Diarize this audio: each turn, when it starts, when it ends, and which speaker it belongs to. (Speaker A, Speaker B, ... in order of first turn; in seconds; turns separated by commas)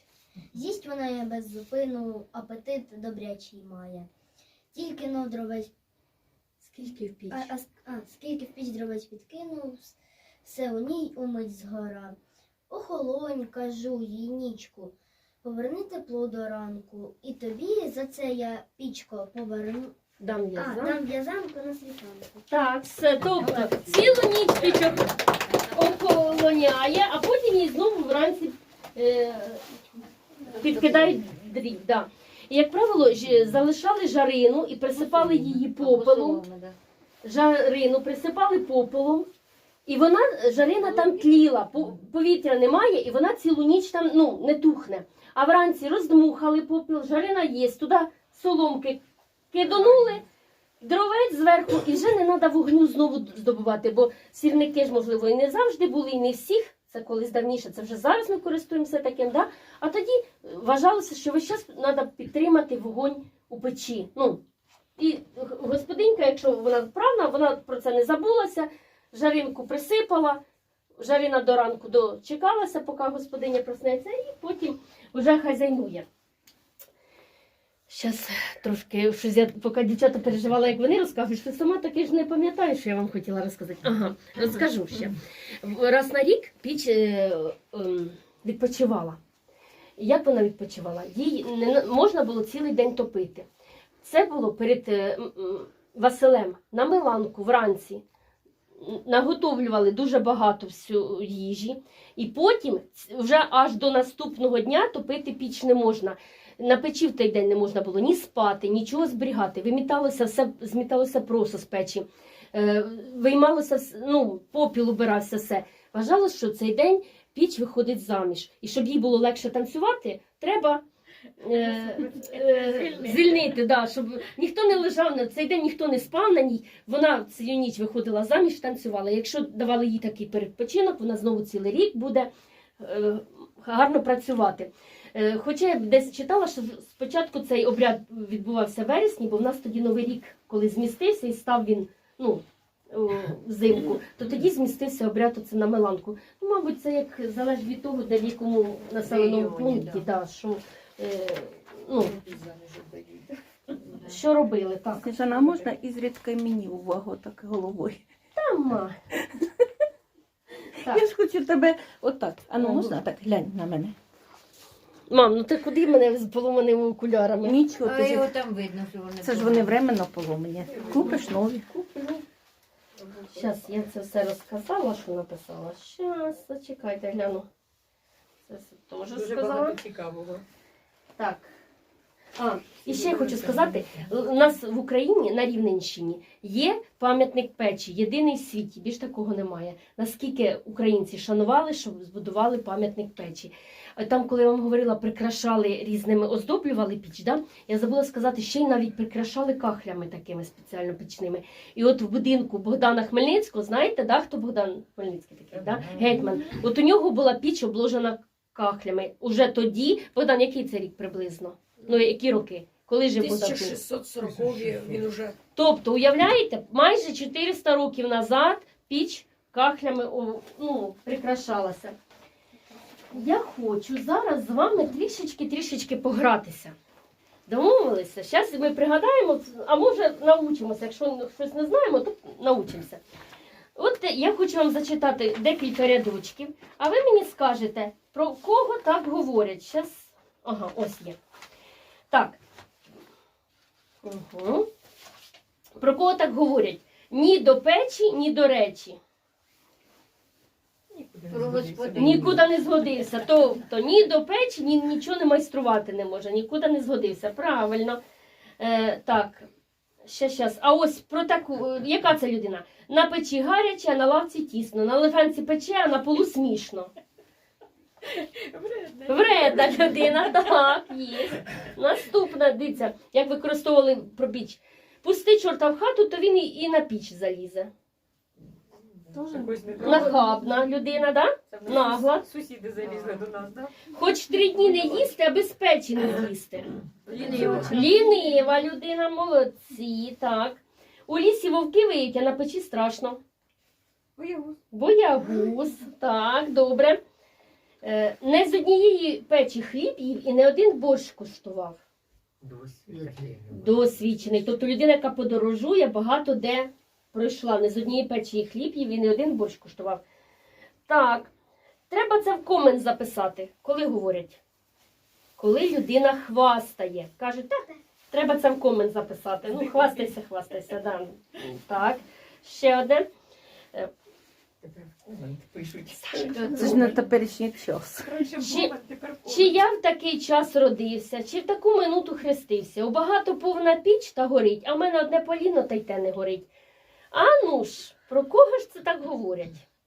Speaker A: 0.5-4.1, Speaker A: 4.7-5.7, Speaker B: 6.6-7.5, Speaker A: 7.3-12.2, Speaker A: 12.7-19.9, Speaker B: 20.2-21.0, Speaker A: 20.5-22.4, Speaker B: 22.5-25.1, Speaker C: 23.5-23.8, Speaker B: 25.7-29.6, Speaker B: 30.5-36.4, Speaker D: 30.6-30.9, Speaker D: 35.0-36.8, Speaker B: 37.2-39.3, Speaker B: 39.9-49.0, Speaker D: 40.8-41.2, Speaker B: 49.5-50.2, Speaker B: 50.8-64.4, Speaker B: 65.0-70.4, Speaker B: 71.0-76.0, Speaker B: 77.9-89.2, Speaker B: 90.0-93.5, Speaker B: 94.0-98.0, Speaker B: 98.8-120.8, Speaker B: 121.4-132.3, Speaker C: 121.5-123.5, Speaker B: 132.8-152.1, Speaker D: 149.0-150.0, Speaker C: 152.0-153.4, Speaker B: 154.0-155.1, Speaker E: 155.0-158.0, Speaker C: 155.1-155.7, Speaker B: 158.3-158.9, Speaker E: 160.8-163.9, Speaker B: 162.6-162.9, Speaker B: 165.1-167.6, Speaker E: 167.4-168.3, Speaker D: 167.8-169.8, Speaker E: 169.2-171.9, Speaker C: 170.7-171.3, Speaker C: 173.0-173.3, Speaker B: 173.3-177.4, Speaker B: 178.5-179.8, Speaker C: 179.1-180.4, Speaker B: 181.2-181.5, Speaker B: 182.4-213.8, Speaker C: 182.8-184.0, Speaker C: 213.2-215.3, Speaker D: 214.2-215.1, Speaker B: 215.5-221.9, Speaker B: 223.1-226.7, Speaker B: 227.5-233.0, Speaker B: 233.8-241.2, Speaker B: 242.1-242.4, Speaker B: 244.0-244.7, Speaker B: 245.8-249.0, Speaker C: 250.9-252.8, Speaker D: 251.3-252.3, Speaker B: 251.9-258.0, Speaker B: 258.6-259.4, Speaker B: 260.0-266.9, Speaker C: 268.1-270.1, Speaker B: 269.1-277.7, Speaker C: 279.1-280.3, Speaker B: 279.8-282.2, Speaker C: 281.5-283.7, Speaker B: 283.9-293.2, Speaker C: 287.1-288.2, Speaker C: 294.2-294.6, Speaker B: 294.7-297.0, Speaker B: 297.8-301.8, Speaker D: 302.4-303.9, Speaker B: 303.5-310.0, Speaker B: 310.9-311.3, Speaker B: 311.9-314.4, Speaker B: 315.4-323.1, Speaker C: 319.5-320.1, Speaker C: 324.6-326.9, Speaker B: 326.0-326.9, Speaker E: 326.6-328.1, Speaker C: 328.0-329.6, Speaker B: 328.4-328.7, Speaker B: 329.2-336.5, Speaker B: 337.1-339.6